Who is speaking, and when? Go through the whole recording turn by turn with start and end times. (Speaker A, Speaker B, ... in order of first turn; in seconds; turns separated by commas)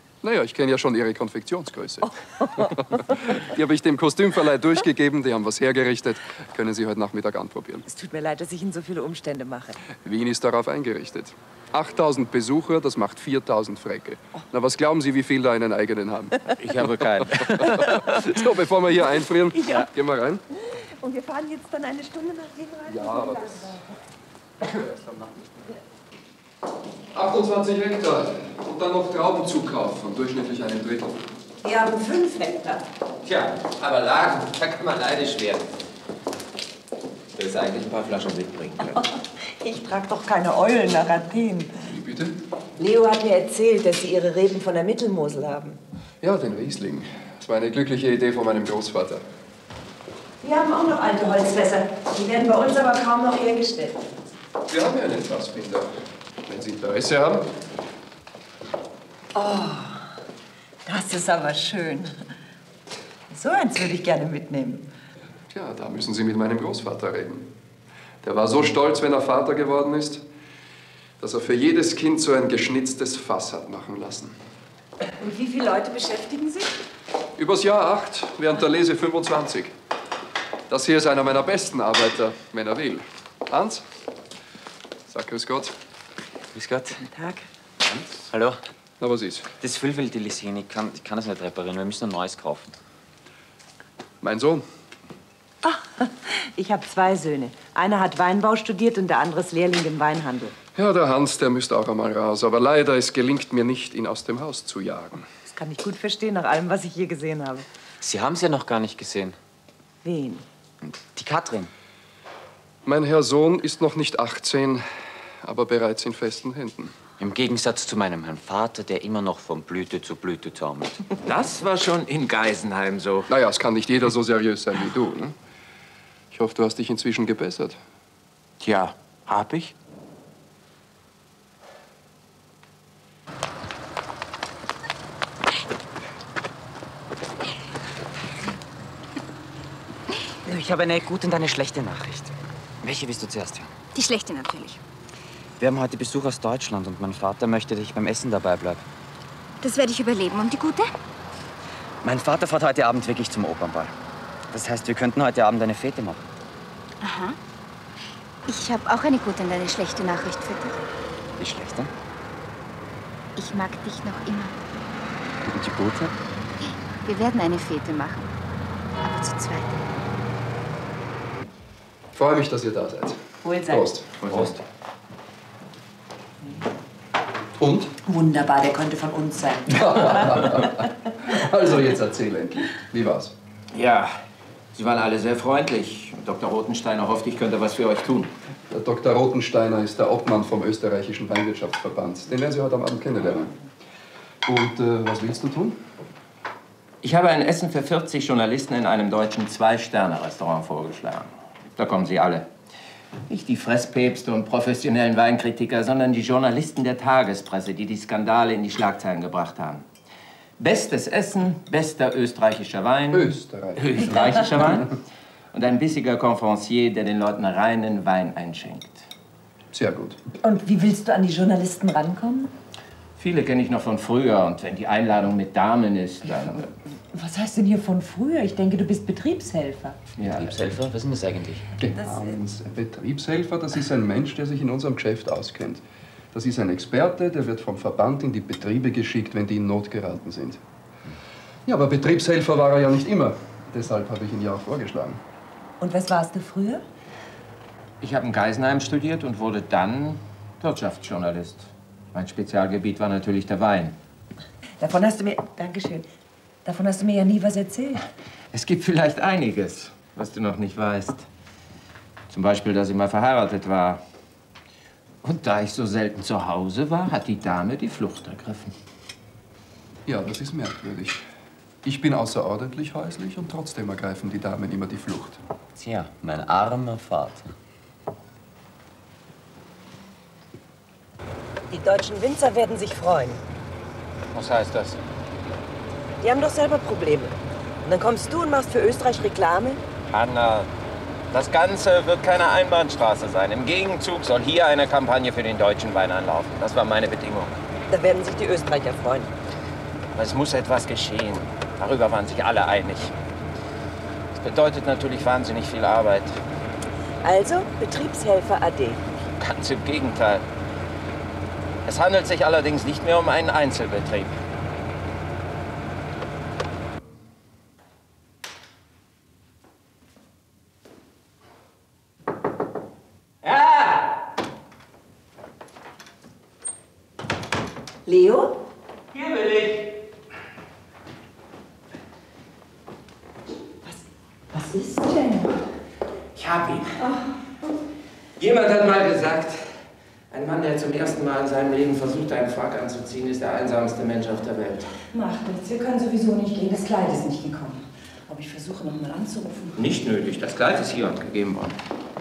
Speaker A: 0.2-2.1, Speaker B: 2.1-2.7, Speaker A: 3.1-7.8, Speaker B: 7.9-9.8, Speaker A: 10.0-16.4, Speaker C: 16.6-18.0, Speaker A: 18.2-20.4, Speaker B: 19.5-19.9, Speaker B: 21.0-23.8, Speaker A: 22.9-23.6, Speaker A: 24.7-25.0, Speaker A: 27.1-31.2, Speaker B: 31.6-32.8, Speaker C: 33.2-35.7, Speaker C: 37.4-39.0, Speaker B: 39.6-41.7, Speaker A: 41.9-42.4, Speaker B: 42.8-45.8, Speaker A: 46.2-49.2, Speaker B: 50.4-54.0, Speaker A: 54.7-55.9, Speaker A: 56.5-57.5, Speaker B: 59.3-60.0, Speaker B: 60.9-62.1, Speaker B: 63.3-64.9, Speaker A: 65.5-67.5, Speaker A: 68.2-70.2, Speaker A: 71.2-74.3, Speaker B: 75.2-76.7, Speaker A: 77.4-79.8, Speaker A: 80.7-83.8, Speaker A: 85.1-85.7, Speaker D: 86.5-87.0, Speaker B: 87.0-87.5, Speaker D: 87.8-88.6, Speaker A: 89.0-89.5, Speaker D: 89.6-92.8, Speaker A: 94.2-94.7, Speaker B: 95.6-100.6, Speaker A: 100.8-105.3, Speaker B: 105.5-107.7, Speaker D: 108.0-109.4, Speaker B: 110.0-110.5, Speaker D: 110.9-111.7, Speaker A: 112.8-114.9, Speaker A: 115.4-116.9, Speaker D: 117.2-121.0, Speaker C: 121.2-123.3, Speaker A: 123.3-125.3, Speaker A: 126.3-127.8, Speaker C: 128.6-129.8, Speaker D: 140.5-143.7, Speaker E: 144.0-144.8, Speaker D: 145.6-148.8, Speaker E: 149.6-150.9, Speaker D: 152.0-153.9, Speaker D: 154.5-156.2, Speaker E: 157.0-157.3, Speaker E: 158.5-160.7, Speaker D: 161.4-161.9, Speaker E: 163.4-164.5, Speaker D: 165.5-166.1, Speaker E: 167.1-168.2, Speaker E: 169.1-169.7, Speaker A: 172.1-174.6, Speaker B: 173.4-173.9, Speaker C: 174.2-174.6, Speaker A: 177.6-177.9, Speaker B: 178.0-180.7, Speaker A: 179.8-183.3, Speaker C: 183.7-184.2, Speaker C: 184.7-188.3, Speaker A: 188.7-193.6, Speaker A: 194.4-195.8, Speaker C: 197.0-202.5, Speaker C: 203.3-209.8, Speaker C: 210.6-214.9, Speaker A: 213.1-214.8, Speaker C: 215.5-219.1, Speaker A: 219.7-220.2, Speaker B: 220.4-222.5, Speaker C: 223.2-226.7, Speaker B: 227.1-230.0, Speaker C: 230.2-230.5, Speaker D: 230.4-231.6, Speaker A: 231.8-235.8, Speaker B: 232.0-232.3, Speaker A: 236.3-240.6, Speaker A: 241.7-245.2, Speaker B: 245.8-246.8, Speaker C: 248.0-254.0, Speaker B: 254.8-256.1, Speaker B: 256.6-258.0, Speaker C: 258.5-261.3, Speaker C: 262.3-264.0, Speaker C: 265.2-268.7, Speaker A: 270.1-271.2, Speaker A: 271.8-275.4, Speaker D: 275.8-277.5, Speaker B: 281.7-283.4, Speaker C: 284.3-285.0, Speaker B: 286.2-289.8, Speaker C: 290.1-290.7, Speaker C: 291.3-297.6, Speaker B: 297.9-299.3, Speaker C: 300.2-303.1, Speaker C: 304.4-306.4, Speaker B: 307.2-309.0, Speaker C: 309.4-310.4, Speaker C: 311.9-314.4, Speaker C: 323.4-324.1, Speaker B: 328.1-328.7, Speaker C: 329.1-329.9, Speaker B: 333.8-335.6, Speaker C: 336.4-337.0, Speaker C: 338.4-339.8, Speaker C: 340.3-344.9, Speaker B: 345.1-349.8, Speaker C: 349.8-351.8